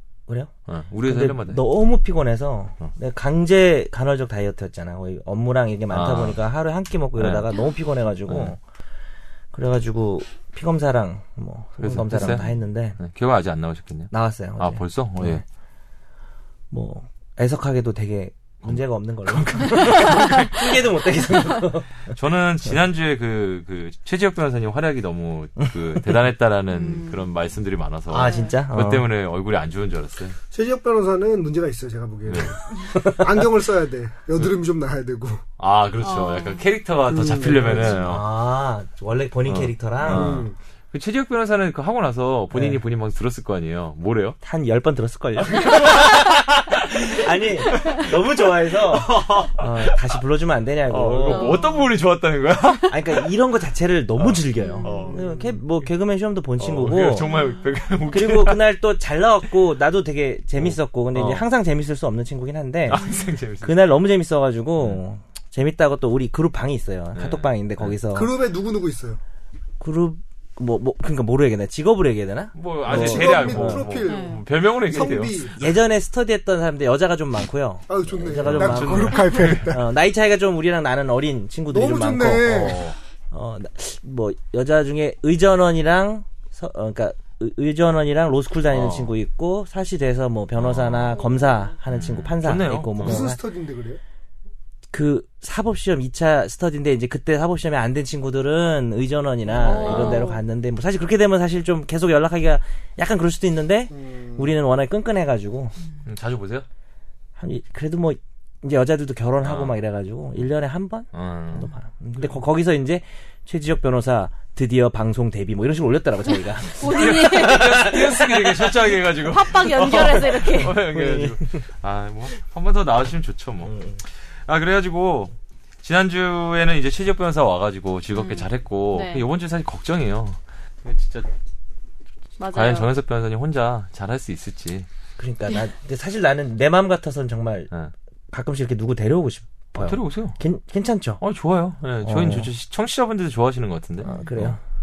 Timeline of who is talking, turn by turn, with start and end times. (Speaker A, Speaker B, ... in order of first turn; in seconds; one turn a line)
Speaker A: 0.3-8.6
Speaker B: 0.7-1.7
Speaker B: 5.9-6.4
Speaker B: 7.2-7.5
Speaker B: 8.3-8.6
Speaker A: 9.5-13.0
Speaker B: 11.8-15.4
Speaker A: 14.1-15.4
Speaker A: 16.7-21.9
Speaker B: 18.6-20.6
Speaker C: 19.9-20.3
Speaker B: 22.1-30.4
Speaker C: 26.7-27.2
Speaker A: 28.1-29.1
Speaker C: 28.2-28.6
Speaker D: 30.5-35.4
Speaker B: 32.3-32.5
Speaker A: 33.0-33.3
Speaker B: 35.6-38.2
Speaker C: 36.0-36.6
Speaker D: 37.1-38.0
Speaker A: 37.5-40.4
Speaker B: 39.5-44.4
Speaker D: 40.0-40.5
Speaker A: 42.5-42.8
Speaker A: 44.4-51.6
Speaker B: 45.5-48.1
Speaker B: 48.8-50.1
Speaker B: 50.9-53.3
Speaker C: 51.3-51.9
Speaker A: 52.9-57.3
Speaker B: 54.2-55.2
Speaker C: 54.6-55.1
Speaker B: 56.6-58.6
Speaker C: 57.3-57.6
Speaker A: 58.1-63.0
Speaker B: 60.6-61.4
Speaker B: 62.9-63.8
Speaker A: 63.6-68.3
Speaker B: 67.2-68.0
Speaker D: 68.1-69.2
Speaker A: 69.8-73.9
Speaker B: 72.5-75.5
Speaker D: 72.8-75.5
Speaker C: 74.0-74.4
Speaker A: 75.6-93.4
Speaker D: 77.9-79.8
Speaker B: 78.4-79.7
Speaker D: 81.7-82.8
Speaker B: 82.4-83.0
Speaker B: 88.7-89.1
Speaker B: 90.6-91.2
Speaker B: 91.9-93.3
Speaker D: 93.0-94.0
Speaker A: 94.9-105.7
Speaker C: 99.6-100.4
Speaker B: 99.6-100.3
Speaker D: 103.9-104.5
Speaker B: 106.0-106.7
Speaker A: 107.4-118.4
Speaker B: 109.4-109.8
Speaker B: 111.1-111.7
Speaker C: 116.8-120.8
Speaker B: 116.8-123.8
Speaker A: 119.9-120.2
Speaker A: 120.8-121.6
Speaker A: 123.7-124.0
Speaker B: 124.5-131.3
Speaker C: 128.1-129.2
Speaker C: 132.4-132.9
Speaker B: 132.5-134.9
Speaker A: 135.2-137.7
Speaker A: 138.3-141.2
Speaker B: 139.8-140.4
Speaker B: 141.2-144.6
Speaker A: 142.0-142.5
Speaker A: 144.0-144.6
Speaker C: 144.1-144.3